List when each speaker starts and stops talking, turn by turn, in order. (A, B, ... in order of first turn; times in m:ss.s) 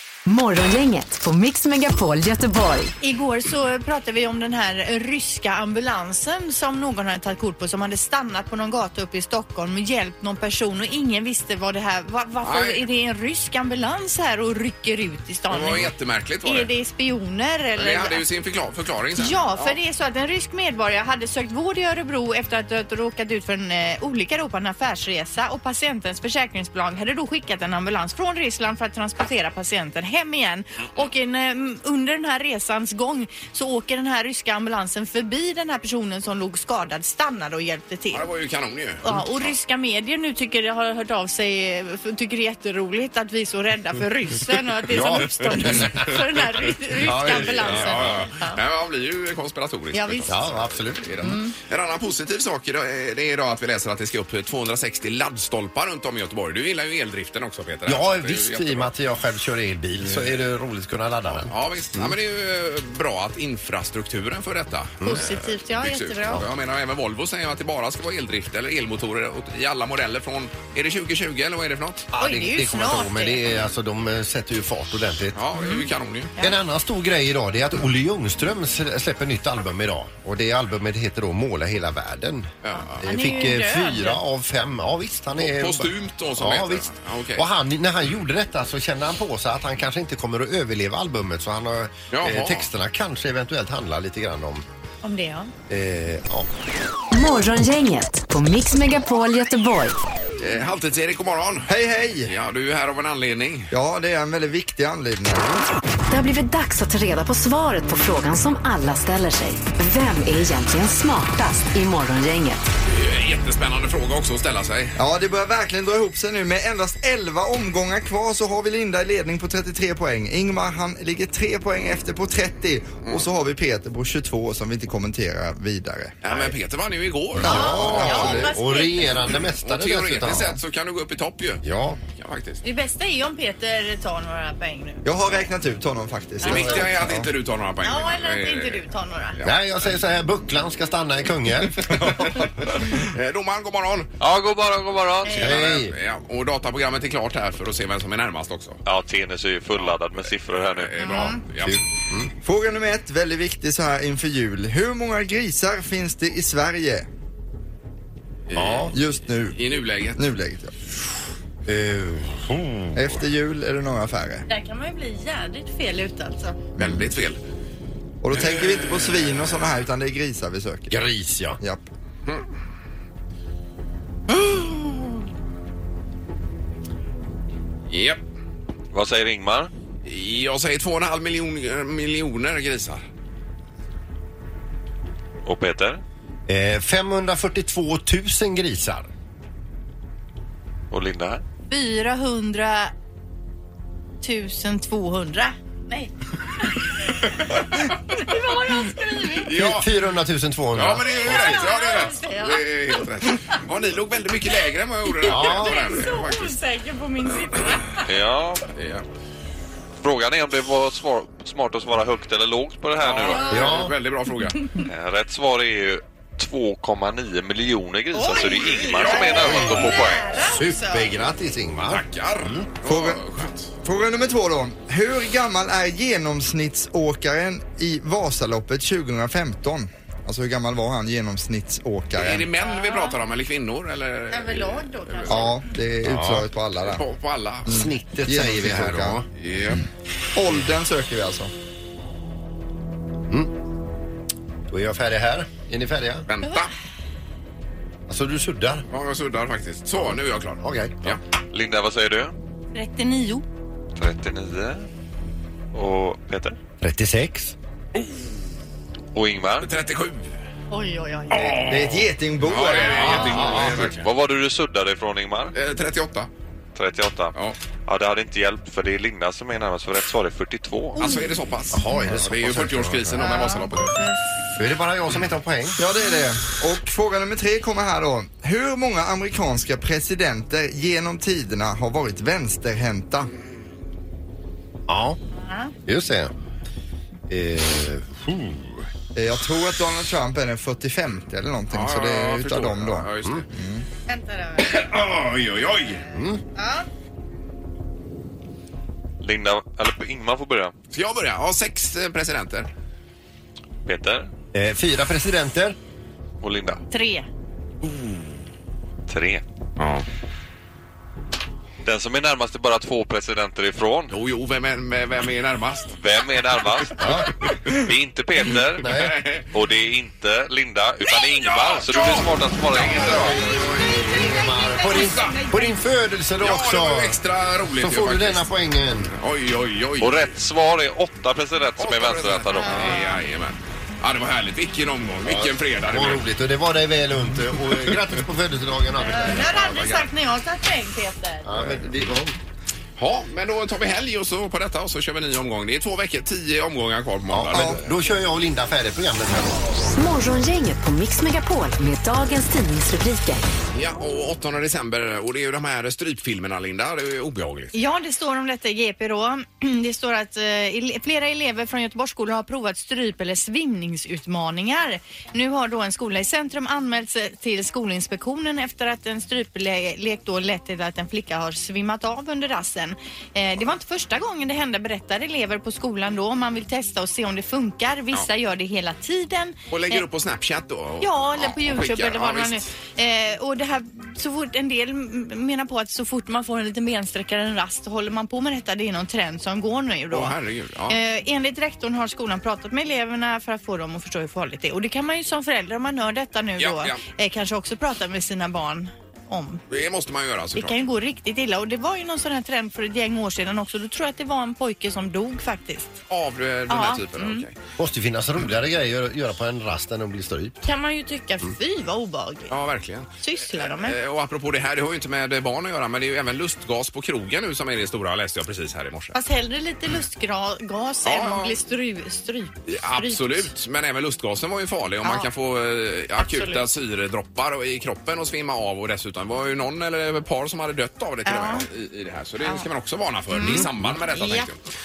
0:00.2-0:02.9 A
0:03.0-0:15.9 B
0:12.4-0:12.8 C
0:15.5-0:16.7 C
0:16.4-0:18.2 B
0:17.8-0:19.8 C
0:19.2-0:38.2 B
0:38.1-0:39.2 C
0:39.0-0:48.6 B
0:44.9-0:46.1 D
0:45.7-0:46.0 C
0:47.0-0:48.3 D
0:47.1-0:58.9 C
0:49.9-0:50.5 B
0:50.3-0:51.2 D
0:51.2-0:51.5 B
0:57.8-1:02.1 D
1:00.0-1:00.3 C
1:01.4-1:12.1 C
1:05.0-1:05.3 D
1:05.0-1:06.4 B
1:12.1-1:15.7 D
1:12.2-1:13.4 B
1:15.4-1:16.3 C
1:16.4-1:22.5 D
1:22.6-1:23.0 C
1:22.8-1:24.2 B
1:23.0-1:34.6 D
1:25.4-1:27.4 C
1:32.1-1:32.7 C
1:35.0-1:35.5 B
1:35.7-1:36.5 D
1:37.1-1:40.0 A
1:40.4-1:41.7 C
1:41.7-1:42.3 E
1:42.3-1:43.7 C
1:43.7-1:45.5 E
1:46.1-1:52.6 A
1:52.9-1:55.0 C
1:55.0-2:06.5 E
2:06.2-2:08.4 C
2:07.4-2:08.5 E
2:07.4-2:10.6 D
2:07.4-2:09.2 B
2:09.5-2:12.6 C
2:11.6-2:12.0 D
2:12.6-2:15.0 B
2:15.0-2:17.3 E
2:16.4-2:19.6 C
2:17.8-2:19.4 B
2:19.4-2:22.4 D
2:21.7-2:24.1 C
2:24.2-2:25.5 F
2:25.2-2:25.6 B
2:25.3-2:28.8 C
2:25.4-2:25.9 D
2:28.8-2:31.3 F
2:30.8-2:31.8 C
2:31.0-2:31.4 B
2:31.6-2:32.3 D
2:32.4-2:37.1 E
2:38.5-2:40.2 C
2:38.5-2:38.9 D
2:38.9-2:39.6 E
2:40.2-2:40.7 E
2:41.7-2:43.2 D
2:42.9-2:44.4 E
2:44.5-2:46.6 B
2:46.8-2:47.4 C
2:46.8-2:47.0 E
2:48.2-2:50.9 E
2:48.3-2:49.2 C
2:50.9-2:51.6 D
2:51.6-2:51.8 E
2:54.3-2:55.2 C
2:57.9-2:58.2 C
2:58.9-2:59.7 F
3:00.0-3:03.0 C
3:05.4-3:06.0 F
3:06.5-3:09.1 D
3:10.9-3:11.4 F
3:11.7-3:12.9 B
3:14.2-3:17.5 B
3:18.1-3:19.5 B
3:19.4-3:19.9 C
3:19.5-3:21.7 D
3:20.7-3:26.5 C
3:21.0-3:23.6 B
3:25.2-3:28.0 B
3:25.2-3:26.0 D
3:28.0-3:28.7 F
3:28.7-3:29.0 C
3:30.0-3:33.6 F
3:33.0-3:34.7 C
3:33.2-3:33.7 B
3:33.5-3:33.9 D
3:34.8-3:40.3 F
3:38.1-3:41.1 B
3:38.8-3:40.0 C
3:40.4-3:42.7 D
3:41.9-3:43.7 C
3:42.8-3:43.2 E
3:43.8-3:52.5 E
3:52.1-3:55.6 C
3:52.6-3:53.2 B
3:54.3-3:55.6 B
3:55.3-3:57.0 E
3:56.0-3:56.5 D
3:56.8-3:57.7 C
3:57.6-3:59.2 E
3:57.7-3:59.3 D
3:59.4-3:59.8 C
4:00.3-4:01.5 E
4:04.7-4:06.3 D
4:06.3-4:06.7 C
4:08.1-4:08.8 D
4:08.9-4:11.2 C
4:10.0-4:11.1 D
4:11.5-4:12.3 F
4:12.7-4:13.4 B
4:14.0-4:14.8 F
4:15.7-4:16.6 F
4:16.8-4:17.5 D
4:19.1-4:19.7 F
4:19.6-4:20.3 C
4:20.7-4:21.6 B
4:21.3-4:24.0 C
4:21.4-4:24.0 E
4:23.2-4:23.4 D
4:23.2-4:25.5 F
4:25.5-4:26.3 C
4:26.7-4:27.3 F
4:27.9-4:31.1 F
4:30.9-4:31.4 B
4:31.0-4:33.9 C
4:31.7-4:33.5 D
4:33.2-4:34.2 B
4:34.6-4:35.8 D
4:35.8-4:43.3 E
4:44.9-4:45.2 D
4:45.4-4:45.7 B
4:45.8-4:46.3 D
4:47.3-4:48.9 D
4:49.2-4:53.8 E
4:51.7-4:53.5 C
4:54.1-4:54.8 B
4:54.6-4:56.0 C
4:56.0-4:56.4 D
4:56.5-4:56.9 B
4:59.2-5:00.7 F
5:00.9-5:02.7 C
5:03.8-5:04.3 F
5:04.5-5:05.8 D
5:06.4-5:06.8 F
5:06.9-5:07.2 B
5:09.1-5:09.4 F
5:09.8-5:10.0 C
5:11.8-5:14.1 F
5:14.1-5:16.0 C
5:16.0-5:18.9 F
5:17.0-5:17.3 D
5:18.8-5:19.2 D
5:18.8-5:19.5 C
5:19.5-5:23.3 F
5:21.3-5:23.4 C
5:22.9-5:27.2 D
5:23.3-5:25.8 B
5:24.9-5:25.4 C
5:26.4-5:28.5 C
5:27.7-5:29.1 D
5:29.1-5:30.1 C
5:30.0-5:33.0 F
5:31.8-5:36.2 C
5:32.5-5:33.2 B
5:35.2-5:39.6 D
5:39.0-5:41.5 B
5:39.2-5:40.1 C
5:41.4-5:42.4 D
5:43.0-5:47.8 C
5:47.3-5:49.8 D
5:47.5-5:47.8 E
5:49.9-5:53.4 A
5:53.7-5:57.7 C
5:57.7-6:20.0 B
6:19.7-6:22.7 C
6:21.0-6:30.3 B
6:30.1-6:31.0 C
6:30.9-6:39.6 B
6:36.6-6:37.0 C
6:39.7-6:40.8 C
6:40.6-6:46.0 B
6:46.1-6:47.6 C
6:46.7-6:47.4 B
6:47.8-6:50.6 D
6:50.6-6:52.5 B
6:52.5-6:59.2 C
6:53.2-6:54.0 B
6:59.1-7:03.5 B
7:01.0-7:01.6 C
7:02.7-7:14.6 C
7:05.0-7:05.3 B
7:06.2-7:06.6 B
7:11.2-7:11.6 B
7:13.3-7:14.5 B